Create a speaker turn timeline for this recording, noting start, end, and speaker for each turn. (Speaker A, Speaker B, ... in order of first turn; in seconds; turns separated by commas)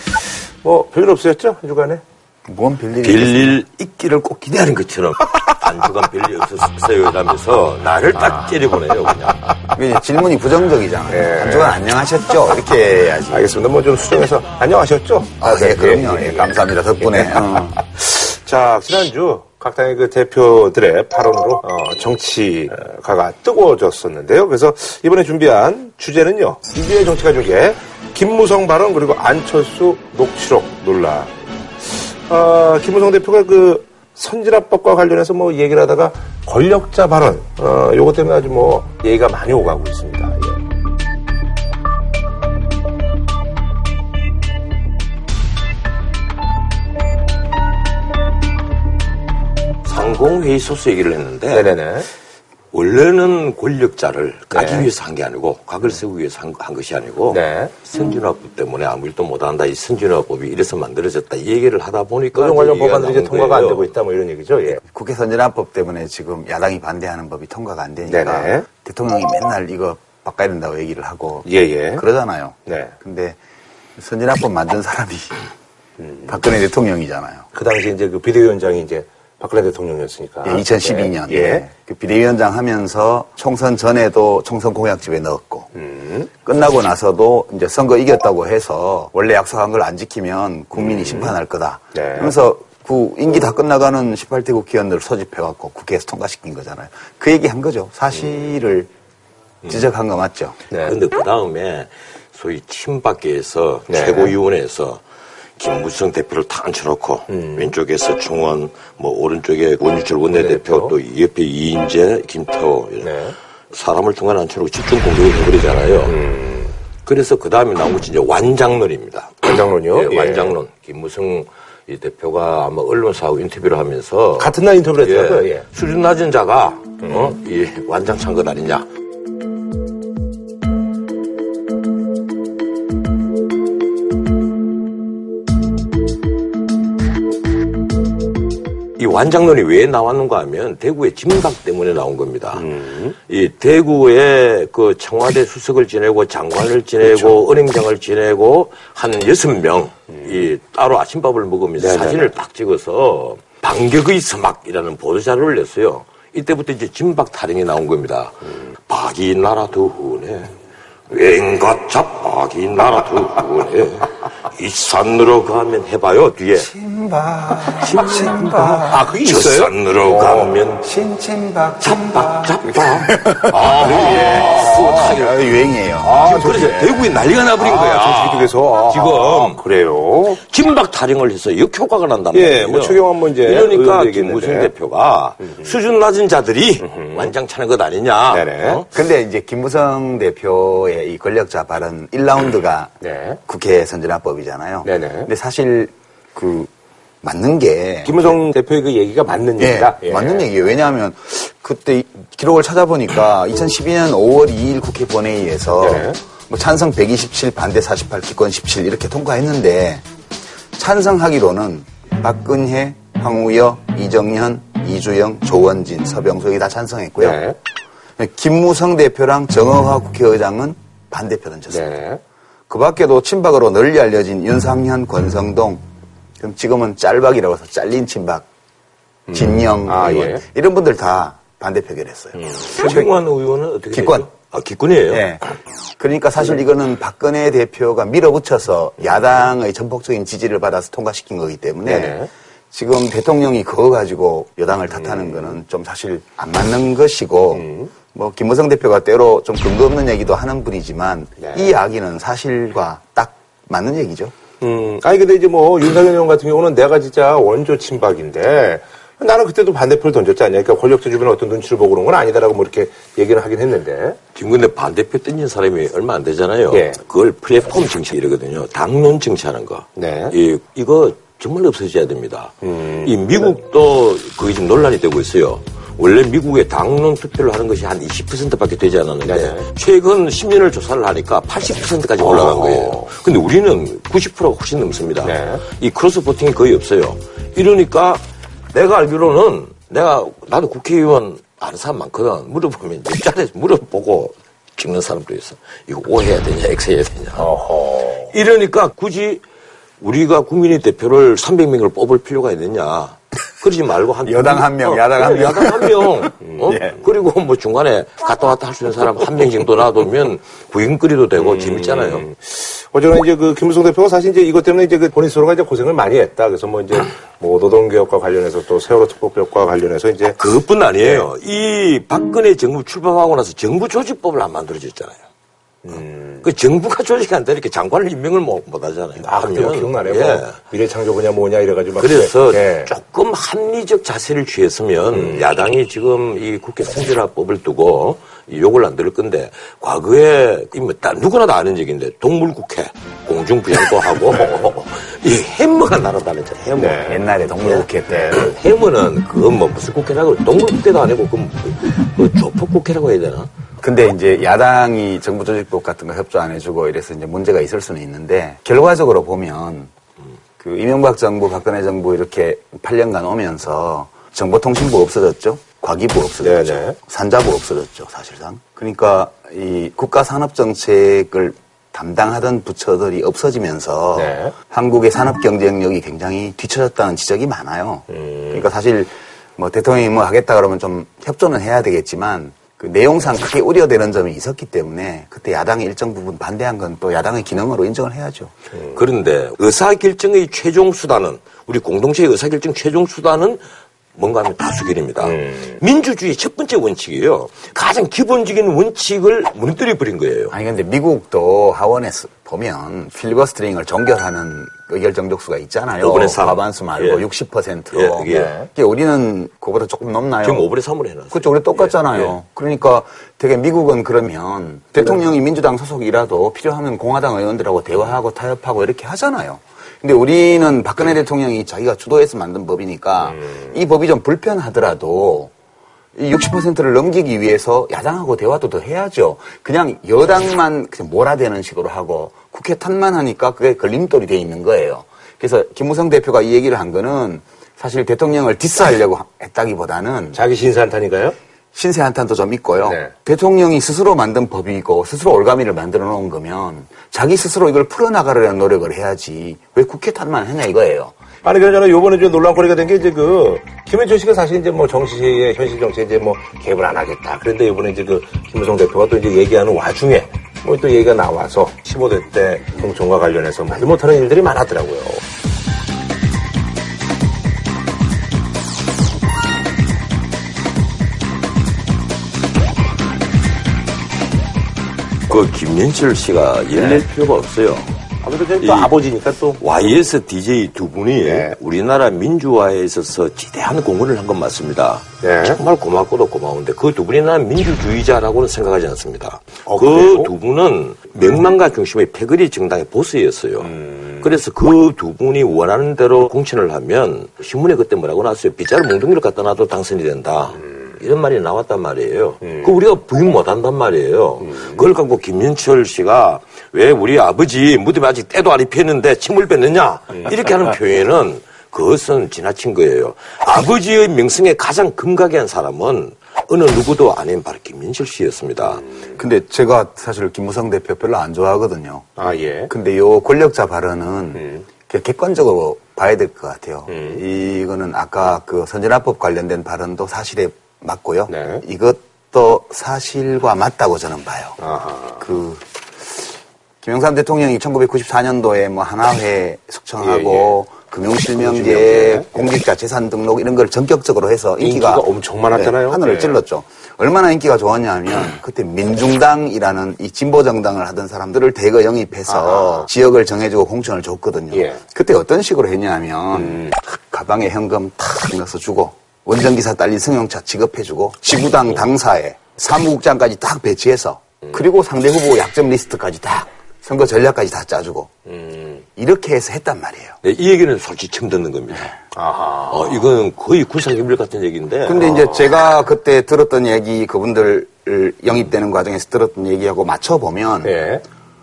Speaker A: 0.6-2.0, Speaker B: 2.5-3.6, Speaker C: 3.0-9.4, Speaker A: 8.2-8.5, Speaker B: 9.7-13.5, Speaker A: 11.1-11.8, Speaker A: 13.3-40.6, Speaker B: 15.4-17.8, Speaker C: 49.8-51.7, Speaker A: 51.5-52.1, Speaker C: 52.7-63.9, Speaker A: 54.5-54.9, Speaker A: 57.3-57.7, Speaker A: 62.3-64.8, Speaker B: 64.8-73.4, Speaker A: 68.1-68.7, Speaker A: 71.4-72.0, Speaker A: 72.7-72.9, Speaker B: 74.0-75.5, Speaker A: 76.0-76.3, Speaker B: 76.3-77.5, Speaker A: 77.5-81.6, Speaker B: 80.4-85.7, Speaker A: 85.7-86.3, Speaker B: 86.4-98.9, Speaker A: 90.8-91.3, Speaker A: 91.9-92.3, Speaker B: 99.6-100.6, Speaker A: 100.7-101.0, Speaker C: 100.8-105.0, Speaker A: 103.9-104.3, Speaker C: 105.6-113.2, Speaker A: 107.3-107.7, Speaker A: 110.3-110.9, Speaker A: 113.0-113.3, Speaker C: 113.7-116.2, Speaker A: 116.0-116.7, Speaker C: 117.0-128.8, Speaker A: 119.4-120.5, Speaker A: 124.4-125.7, Speaker A: 127.0-127.3, Speaker C: 139.0-142.7, Speaker A: 142.6-143.2, Speaker C: 143.3-160.5, Speaker A: 147.0-147.4, Speaker A: 150.1-150.5, Speaker A: 151.8-152.3, Speaker C: 161.1-166.7, Speaker B: 166.6-169.1, Speaker C: 167.6-170.8, Speaker A: 168.8-170.6, Speaker B: 170.8-176.7, Speaker C: 171.8-179.6, Speaker A: 173.5-174.8, Speaker A: 176.0-177.0, Speaker A: 177.6-180.4, Speaker C: 180.4-188.9, Speaker A: 182.3-184.7, Speaker A: 185.4-185.7, Speaker A: 186.8-187.3, Speaker A: 188.3-188.8, Speaker B: 188.9-192.9, Speaker A: 193.0-193.4, Speaker B: 193.4-196.7, Speaker A: 194.8-195.3, Speaker B: 197.2-198.3, Speaker A: 198.0-200.5, Speaker B: 199.6-210.0, Speaker A: 205.8-206.2, Speaker B: 210.7-217.4, Speaker A: 217.2-217.6, Speaker B: 218.2-221.9, Speaker A: 221.7-222.2, Speaker B: 222.7-225.8, Speaker B: 226.4-228.4, Speaker A: 229.3-230.4, Speaker B: 229.3-233.0, Speaker A: 232.3-233.0, Speaker C: 232.7-235.3, Speaker B: 233.9-234.3, Speaker B: 235.1-235.4, Speaker B: 236.0-242.2, Speaker A: 241.8-242.3, Speaker B: 242.7-254.3, Speaker A: 244.9-245.6, Speaker A: 247.5-247.9, Speaker A: 251.4-251.7, Speaker A: 254.6-264.2, Speaker C: 264.3-297.5, Speaker A: 266.7-267.0, Speaker A: 269.9-270.3, Speaker A: 272.6-273.4, Speaker A: 279.2-279.7, Speaker A: 282.2-283.1, Speaker A: 285.2-285.6, Speaker A: 297.4-298.3, Speaker C: 298.3-299.4, Speaker C: 300.0-312.2, Speaker B: 304.2-306.9, Speaker A: 306.4-306.8, Speaker A: 311.4-320.4, Speaker C: 320.4-325.2, Speaker A: 325.8-326.4, Speaker C: 326.4-330.6, Speaker A: 329.2-332.9, Speaker C: 332.0-347.1, Speaker A: 335.1-335.5, Speaker A: 344.3-344.7, Speaker A: 346.8-348.5, Speaker B: 347.0-348.4, Speaker C: 348.3-353.5, Speaker B: 353.8-359.9, Speaker B: 360.6-388.5, Speaker A: 366.4-367.0, Speaker A: 374.1-374.5, Speaker A: 378.1-378.6, Speaker A: 388.7-389.0, Speaker C: 388.9-393.6, Speaker C: 394.1-400.5, Speaker A: 395.2-395.8, Speaker B: 400.5-410.7, Speaker C: 406.0-407.2, Speaker C: 407.9-408.5, Speaker A: 408.3-408.7, Speaker C: 410.4-412.3, Speaker B: 411.3-425.5, Speaker B: 426.1-440.4, Speaker A: 440.3-441.4, Speaker B: 441.7-451.1, Speaker A: 442.8-443.1, Speaker A: 451.4-465.2, Speaker C: 475.3-477.9, Speaker A: 476.7-477.0, Speaker A: 478.2-479.6, Speaker C: 478.6-478.9, Speaker C: 479.6-518.8, Speaker A: 481.2-481.6, Speaker A: 485.2-485.6, Speaker A: 489.6-490.3, Speaker A: 493.6-494.3, Speaker A: 502.4-502.7, Speaker A: 504.4-504.8, Speaker A: 518.8-519.1, Speaker B: 519.2-522.1, Speaker A: 522.2-522.7, Speaker B: 522.7-534.6, Speaker A: 524.4-524.6, Speaker A: 526.9-527.2, Speaker A: 531.3-531.6, Speaker A: 534.6-535.2, Speaker B: 535.2-536.2, Speaker B: 536.8-568.1, Speaker A: 540.0-540.6, Speaker A: 541.4-542.3, Speaker A: 544.6-546.4, Speaker A: 552.3-552.9, Speaker A: 554.5-554.8, Speaker A: 556.3-556.8, Speaker A: 568.3-568.8, Speaker B: 569.0-570.2, Speaker C: 570.2-572.0, Speaker A: 572.1-573.0, Speaker C: 572.7-575.2, Speaker B: 574.8-580.7, Speaker A: 575.1-575.4, Speaker A: 580.6-581.0